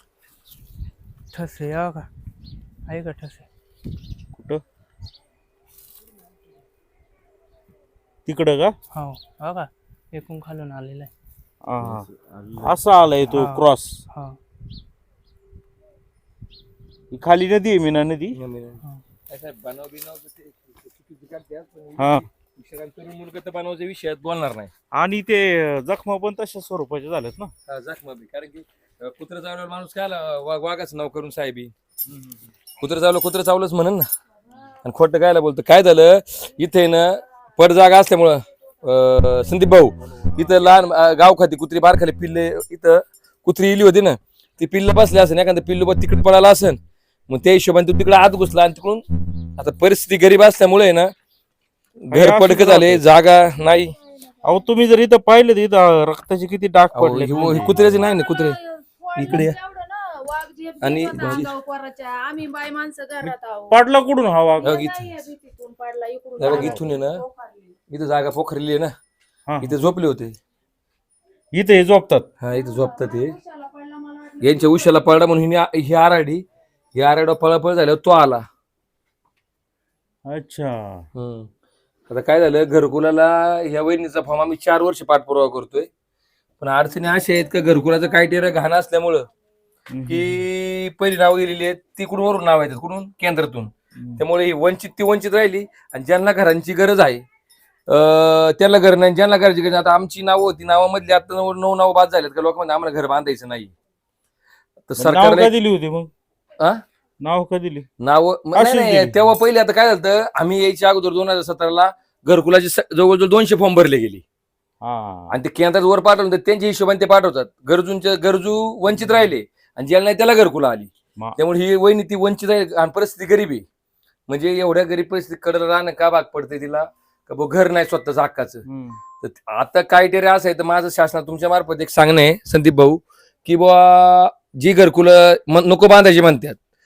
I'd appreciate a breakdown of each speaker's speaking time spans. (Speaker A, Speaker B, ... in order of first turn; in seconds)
Speaker A: 1.3-2.1, 2.9-3.5, 8.9-11.1, 13.3-14.4
Speaker B: 4.3-4.6, 8.2-8.7, 11.7-12.1, 12.6-14.0, 17.1-18.4, 22.0-22.2, 24.9-27.5, 32.0-32.5, 52.1-53.0, 54.4-57.9, 59.2-59.5, 63.2-64.7, 66.5-66.8, 69.5-69.7, 71.5-72.3, 80.3-81.0, 89.9-90.4, 94.0-94.2, 105.0-106.1, 107.2-107.8, 108.5-109.2, 114.8-115.3, 119.0-119.2, 128.6-129.0
Speaker C: 11.8-12.7, 18.3-24.7, 27.7-31.7, 32.8-34.0, 34.8-49.0, 49.6-51.1, 52.0-53.9, 56.9-58.6, 59.2-59.5, 60.8-61.5, 64.6-65.3, 66.4-67.2, 67.9-68.9, 69.6-70.4, 72.4-73.4, 74.4-78.5, 81.1-81.5, 82.1-85.9, 86.6-89.3, 90.1-97.2, 97.9-103.7, 104.9-105.5, 108.0-114.2, 115.3-123.7, 124.3-128.6, 129.2-136.6
Speaker D: 57.8-63.8, 64.6-67.7, 72.5-75.1